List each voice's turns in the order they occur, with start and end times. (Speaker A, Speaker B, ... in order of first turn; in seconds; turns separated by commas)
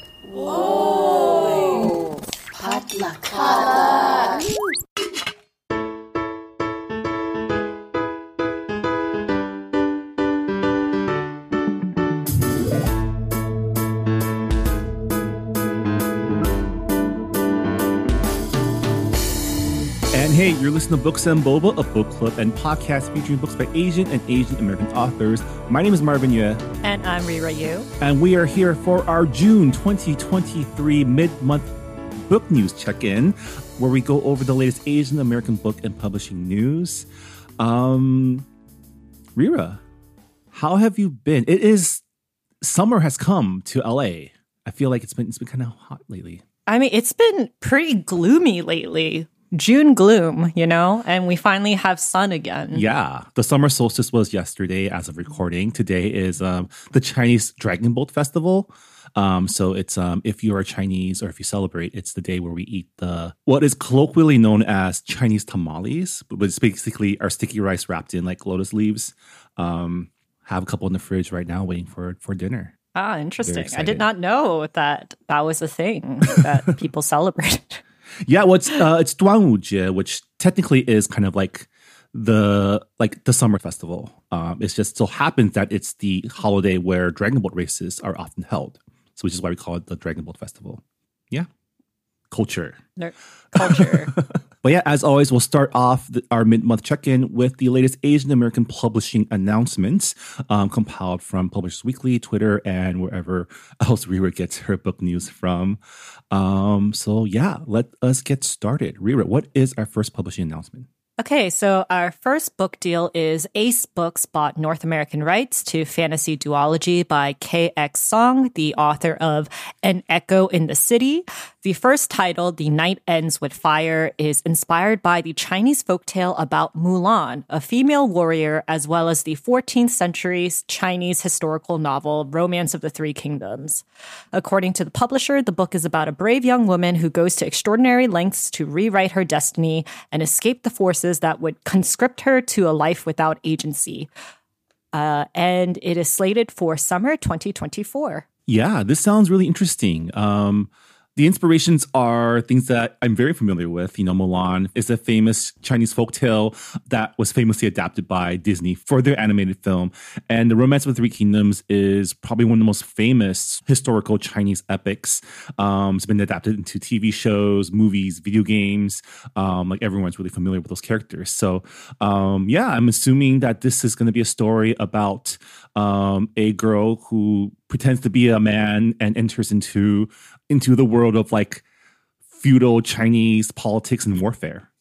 Speaker A: 0.3-4.4, Speaker B: 20.1-26.6, Speaker C: 26.8-27.9, Speaker B: 28.0-31.7, Speaker B: 32.2-37.1, Speaker B: 37.6-38.5, Speaker B: 39.4-39.8, Speaker B: 40.5-42.0, Speaker B: 42.6-46.4, Speaker C: 46.7-52.8, Speaker B: 52.7-72.7, Speaker C: 72.9-77.8, Speaker B: 73.4-74.0, Speaker B: 78.2-91.5, Speaker B: 92.3-92.8, Speaker C: 93.0-94.1, Speaker B: 93.5-105.8, Speaker B: 106.3-110.9, Speaker C: 111.2-144.1, Speaker C: 144.9-148.2, Speaker B: 148.5-181.6, Speaker B: 182.3-184.7